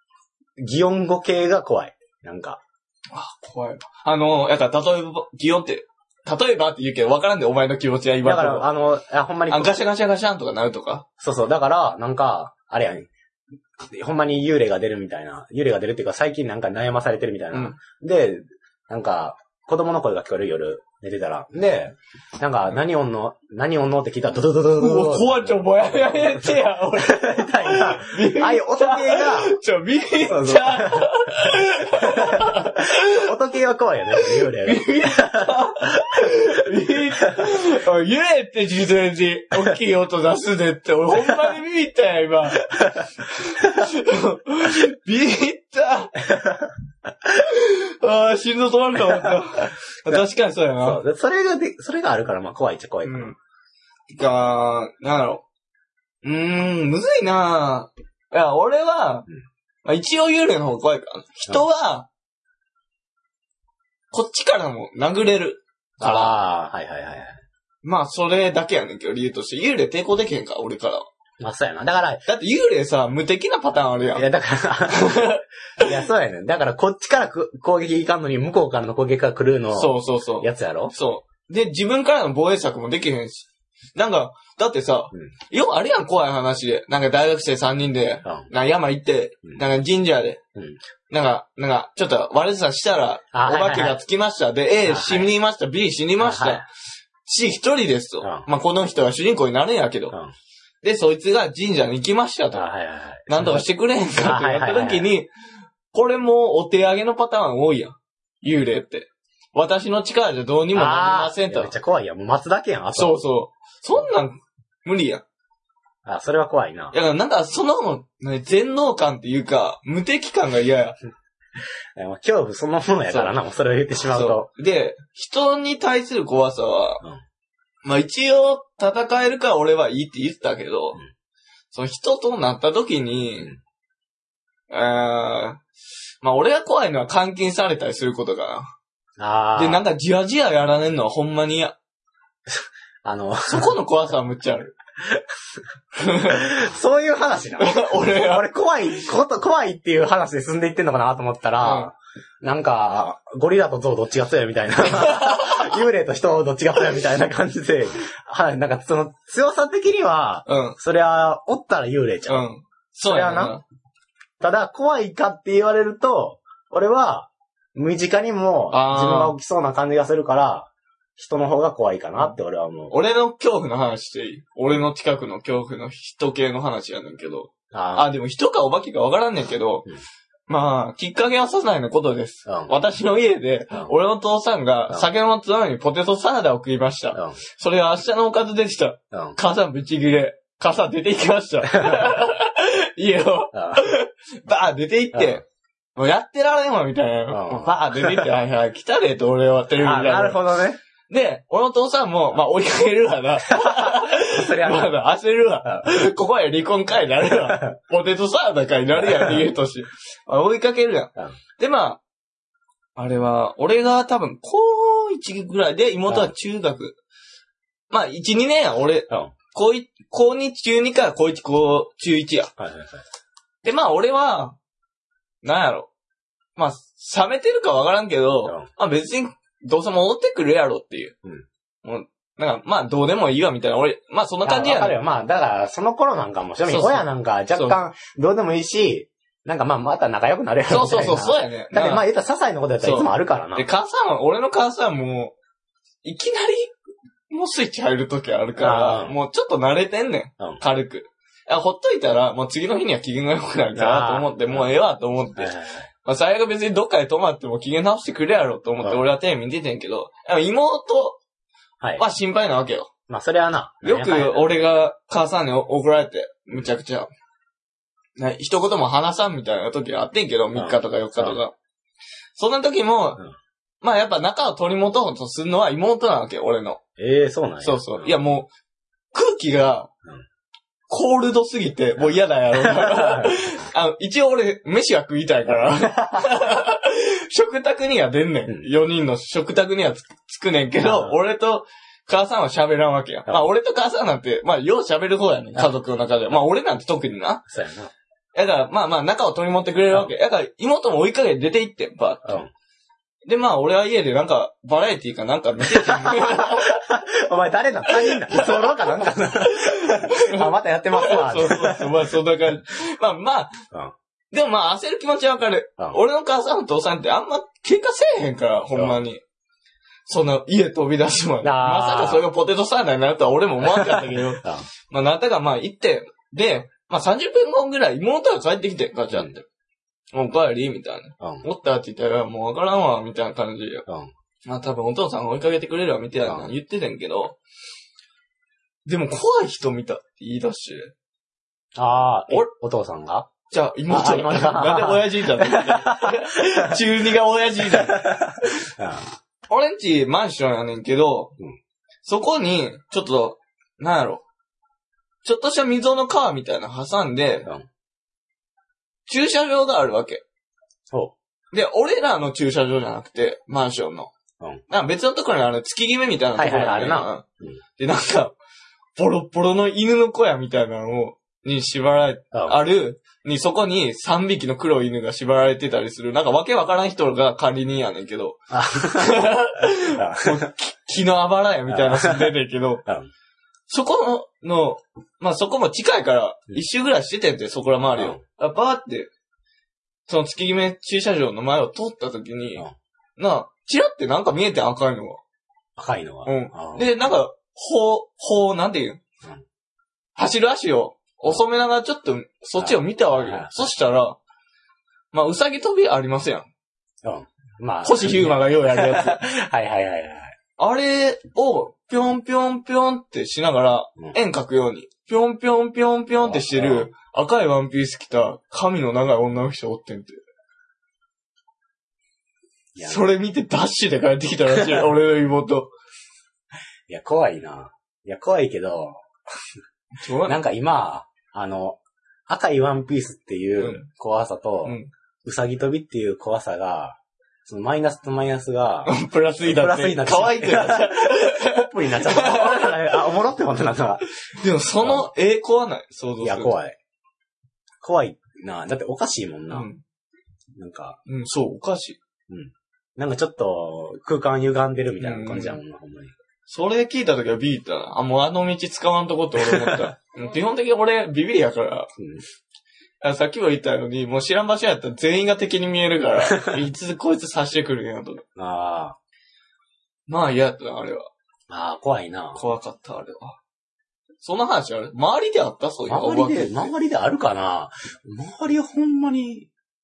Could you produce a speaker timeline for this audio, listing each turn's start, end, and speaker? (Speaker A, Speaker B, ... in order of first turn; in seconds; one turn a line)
Speaker A: 0.6-2.6
Speaker B: 3.1-8.7
Speaker A: 8.2-9.8
Speaker B: 9.5-11.1
Speaker A: 11.2-13.1
Speaker A: 13.9-25.6
Speaker B: 24.8-33.2
Speaker A: 26.1-29.5
Speaker A: 30.2-31.1
Speaker A: 31.9-32.6
Speaker A: 33.1-35.5
Speaker B: 34.2-46.2
Speaker A: 46.3-46.7
Speaker B: 47.3-51.0
Speaker A: 50.8-53.4
Speaker B: 53.0-53.4
Speaker B: 54.1-55.4
Speaker B: 56.2-59.3
Speaker B: 59.9-62.1
Speaker B: 64.1-66.4
Speaker A: 66.0-67.4
Speaker B: 67.8-71.1
Speaker A: 71.4-72.2
Speaker B: 72.3-74.3
Speaker A: 74.2-80.9
Speaker B: 74.9-75.9
Speaker B: 79.7-90.4
Speaker B: 91.1-96.7
Speaker A: 93.3-94.0
Speaker A: 94.8-95.3
Speaker A: 96.2-96.6
Speaker B: 97.2-100.2
Speaker A: 98.2-98.5
Speaker B: 100.8-102.7
Speaker A: 102.5-103.7
Speaker B: 103.3-105.3
Speaker A: 104.2-105.1
Speaker B: 105.9-111.7
Speaker A: 110.7-113.1
Speaker B: 113.0-115.2
Speaker A: 116.1-116.9
Speaker B: 116.9-121.0
Speaker A: 122.0-124.5
Speaker B: 124.1-127.0
Speaker B: 127.8-131.0
Speaker B: 131.7-133.5
Speaker B: 134.7-135.6
Speaker B: 136.2-138.7
Speaker A: 139.2-139.8
Speaker B: 139.6-141.8
Speaker A: 142.5-143.7
Speaker B: 143.5-144.8
Speaker B: 146.0-146.5
Speaker A: 146.3-162.5
Speaker B: 147.6-148.5
Speaker B: 151.6-151.9
Speaker B: 154.9-155.8
Speaker B: 160.5-160.8
Speaker B: 162.3-163.6
Speaker A: 163.1-163.5
Speaker A: 164.4-172.9
Speaker B: 168.7-169.4
Speaker B: 172.9-179.9
Speaker A: 177.7-178.1
Speaker B: 180.5-195.4
Speaker A: 182.5-182.7
Speaker A: 189.1-189.4
Speaker A: 191.8-192.1
Speaker A: 193.5-193.8
Speaker A: 195.1-195.4
Speaker B: 196.0-200.4
Speaker A: 197.3-198.3
Speaker A: 199.8-200.8
Speaker B: 201.1-212.0
Speaker A: 203.5-204.9
Speaker A: 209.0-209.4
Speaker B: 213.0-217.0
Speaker B: 217.9-222.5
Speaker A: 222.6-223.0
Speaker B: 223.6-224.6
Speaker B: 225.4-225.9
Speaker B: 226.6-231.2
Speaker B: 231.8-235.0
Speaker A: 234.4-243.7
Speaker B: 236.7-237.8
Speaker B: 240.7-242.1
Speaker B: 242.8-245.3
Speaker B: 246.0-246.8
Speaker B: 247.3-255.5
Speaker A: 248.6-249.2
Speaker A: 253.7-254.7
Speaker A: 255.4-255.9
Speaker B: 256.1-261.2
Speaker B: 262.0-262.9
Speaker A: 263.1-264.5
Speaker B: 263.8-267.1
Speaker B: 268.2-271.5
Speaker A: 270.6-271.4
Speaker B: 272.4-273.2
Speaker B: 273.8-276.8
Speaker A: 277.0-278.1
Speaker B: 277.6-278.5
Speaker B: 279.1-279.9
Speaker B: 280.9-297.4
Speaker A: 282.6-283.4
Speaker A: 285.5-286.3
Speaker A: 290.8-291.2
Speaker A: 297.5-297.9
Speaker B: 298.4-302.4
Speaker B: 303.3-306.8
Speaker A: 305.7-311.9
Speaker B: 307.9-313.6
Speaker B: 314.3-319.2
Speaker B: 320.1-329.5
Speaker A: 321.4-322.3
Speaker A: 323.6-324.6
Speaker B: 330.1-333.9
Speaker B: 334.4-337.4
Speaker A: 336.3-336.5
Speaker B: 338.9-340.9
Speaker A: 341.8-343.3
Speaker B: 343.5-348.6
Speaker A: 343.9-346.8
Speaker A: 347.7-349.1
Speaker B: 349.5-351.4
Speaker B: 352.1-354.2
Speaker B: 355.2-357.5
Speaker B: 359.1-360.2
Speaker B: 361.5-364.1
Speaker B: 364.7-367.2
Speaker A: 366.4-367.6
Speaker B: 367.8-368.3
Speaker B: 369.0-382.8
Speaker A: 372.3-372.6
Speaker A: 378.5-379.2
Speaker A: 379.9-380.4
Speaker A: 381.7-382.3
Speaker B: 383.7-389.1
Speaker B: 390.1-392.7
Speaker B: 393.2-395.2
Speaker A: 395.8-396.9
Speaker B: 396.3-399.0
Speaker B: 400.2-404.2
Speaker A: 402.6-403.6
Speaker B: 405.1-406.5
Speaker A: 407.0-410.4
Speaker B: 407.8-409.2
Speaker B: 410.6-420.2
Speaker A: 416.2-416.9
Speaker A: 422.8-423.1
Speaker B: 422.8-425.7
Speaker A: 426.9-429.0
Speaker B: 430.0-430.4
Speaker A: 430.3-438.9
Speaker B: 433.6-433.9
Speaker B: 438.9-442.8
Speaker A: 439.4-444.0
Speaker B: 444.3-446.6
Speaker A: 444.8-445.1
Speaker A: 446.2-446.8
Speaker A: 447.8-449.7
Speaker B: 449.5-449.8
Speaker A: 450.6-451.0
Speaker B: 451.1-452.0
Speaker A: 452.3-456.1
Speaker B: 455.0-455.6
Speaker B: 456.5-461.9
Speaker A: 459.4-459.8
Speaker A: 462.0-462.2
Speaker B: 463.0-468.2
Speaker A: 466.3-466.6
Speaker A: 468.4-469.0
Speaker B: 470.1-471.1
Speaker A: 471.5-472.4
Speaker B: 472.4-473.4
Speaker B: 474.2-476.7
Speaker A: 475.9-479.5